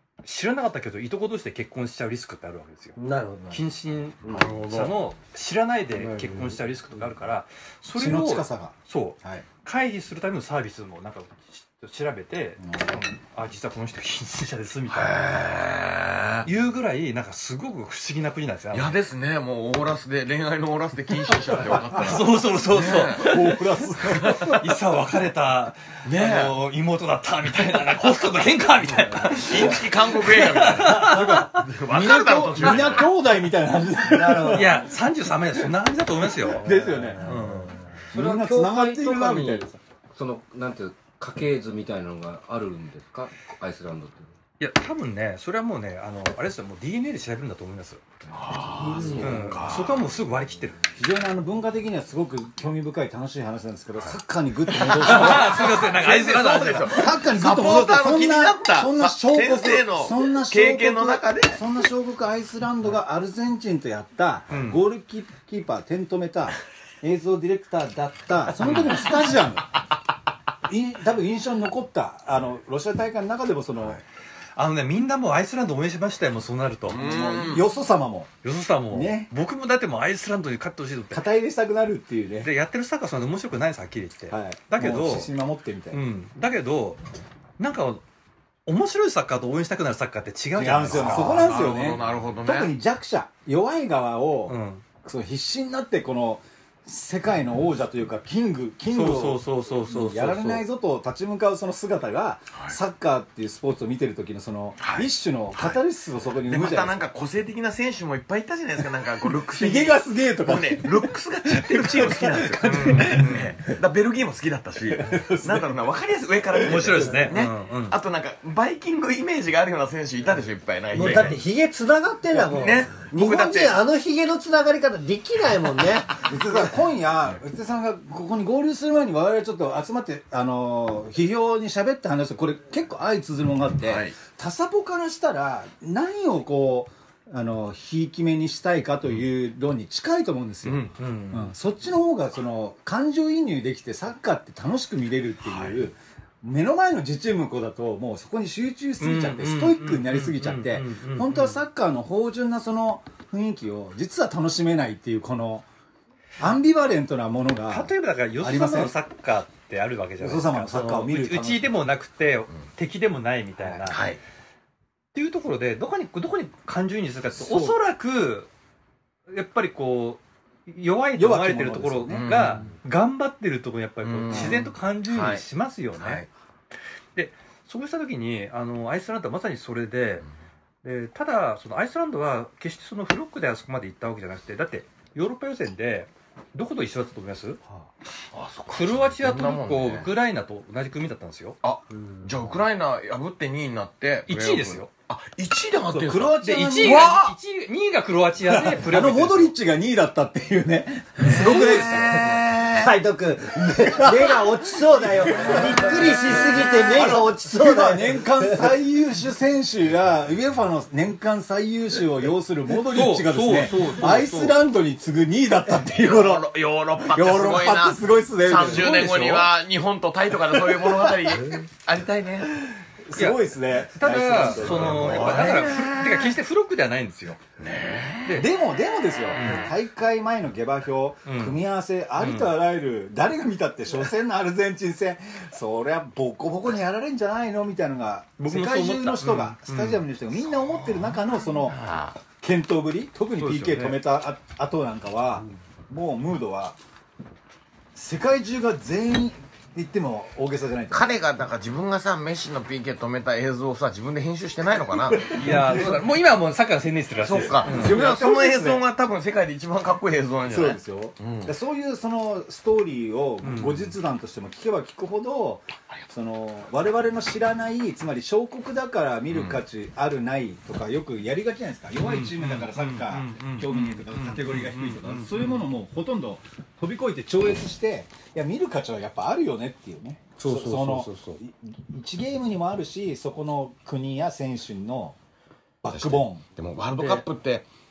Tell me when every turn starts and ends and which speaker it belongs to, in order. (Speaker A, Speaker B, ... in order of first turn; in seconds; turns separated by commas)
Speaker A: 0.2-3.0, Speaker B: 3.0-3.6, Speaker A: 3.5-15.2, Speaker C: 4.3-5.0, Speaker D: 6.0-6.5, Speaker D: 7.9-9.5, Speaker D: 12.6-13.0, Speaker C: 14.9-16.5, Speaker A: 16.5-19.0, Speaker C: 18.7-23.5, Speaker D: 21.5-24.7, Speaker A: 22.0-31.6, Speaker C: 24.2-24.5, Speaker C: 26.1-26.6, Speaker D: 28.9-29.6, Speaker C: 29.4-33.1, Speaker D: 30.9-34.9, Speaker B: 34.0-34.9, Speaker A: 34.5-37.8, Speaker D: 36.5-37.4, Speaker B: 36.6-38.0, Speaker D: 38.1-39.8, Speaker E: 38.1-44.3, Speaker A: 44.6-48.0, Speaker C: 48.3-50.0, Speaker D: 48.5-49.7, Speaker B: 48.8-49.3, Speaker A: 49.2-50.8, Speaker D: 50.9-55.9, Speaker A: 54.8-57.1, Speaker C: 54.9-61.6, Speaker D: 56.9-69.8, Speaker A: 64.5-64.8, Speaker A: 68.6-69.2, Speaker D: 70.7-74.0, Speaker A: 74.6-77.1, Speaker C: 76.9-77.7, Speaker D: 76.9-78.3, Speaker A: 78.4-81.3, Speaker D: 78.9-79.3, Speaker D: 81.1-82.5, Speaker A: 82.4-85.3, Speaker D: 84.3-86.0, Speaker A: 85.9-87.0, Speaker A: 87.6-88.0, Speaker A: 88.7-91.5, Speaker D: 90.5-107.0, Speaker C: 90.9-92.8, Speaker A: 94.5-94.8, Speaker A: 98.9-100.6, Speaker C: 104.8-105.8, Speaker C: 106.4-121.4, Speaker D: 109.5-113.7, Speaker A: 112.9-113.5, Speaker D: 115.0-115.7, Speaker A: 116.6-118.0, Speaker B: 120.9-126.6, Speaker C: 122.3-123.8, Speaker D: 126.2-155.7, Speaker C: 133.8-134.2, Speaker C: 140.7-140.9, Speaker A: 141.0-141.5, Speaker C: 145.4-145.8, Speaker A: 149.0-151.6, Speaker D: 156.4-158.9, Speaker A: 157.7-164.1, Speaker D: 160.2-161.8, Speaker D: 163.6-164.0, Speaker C: 163.9-164.2, Speaker A: 165.1-168.5, Speaker D: 167.3-167.8, Speaker A: 169.3-176.2, Speaker D: 171.2-172.6, Speaker C: 172.1-172.8, Speaker C: 174.0-175.4, Speaker D: 174.3-174.6, Speaker C: 176.0-176.3, Speaker A: 177.2-180.3, Speaker A: 180.8-187.6, Speaker C: 188.3-190.1, Speaker A: 188.7-191.6, Speaker C: 191.6-197.3, Speaker B: 191.9-192.3, Speaker A: 194.3-194.9, Speaker D: 195.9-197.2, Speaker A: 196.4-199.5, Speaker D: 198.5-202.4, Speaker A: 201.3-202.1, Speaker B: 201.4-208.6, Speaker C: 202.1-202.9, Speaker D: 203.6-216.5, Speaker A: 212.9-214.6, Speaker C: 216.0-222.6, Speaker D: 217.0-219.5, Speaker A: 218.5-219.5, Speaker D: 223.1-225.9, Speaker A: 223.2-227.4, Speaker C: 224.4-226.1, Speaker C: 227.6-228.4, Speaker D: 228.3-241.8, Speaker A: 229.4-229.7, Speaker A: 231.3-231.6, Speaker A: 232.2-232.5, Speaker A: 238.4-240.1, Speaker C: 240.7-242.2, Speaker D: 242.4-246.8, Speaker A: 243.4-244.0, Speaker D: 247.9-251.1, Speaker C: 250.9-255.3, Speaker D: 255.3-255.7, Speaker A: 255.3-257.9, Speaker C: 257.2-261.5, Speaker D: 257.6-258.8, Speaker D: 260.5-285.2, Speaker A: 263.4-263.9, Speaker C: 269.3-269.6, Speaker A: 272.0-275.5, Speaker C: 273.5-275.1, Speaker E: 280.4-281.4, Speaker D: 285.8-286.4, Speaker C: 285.9-287.7, Speaker A: 287.0-287.3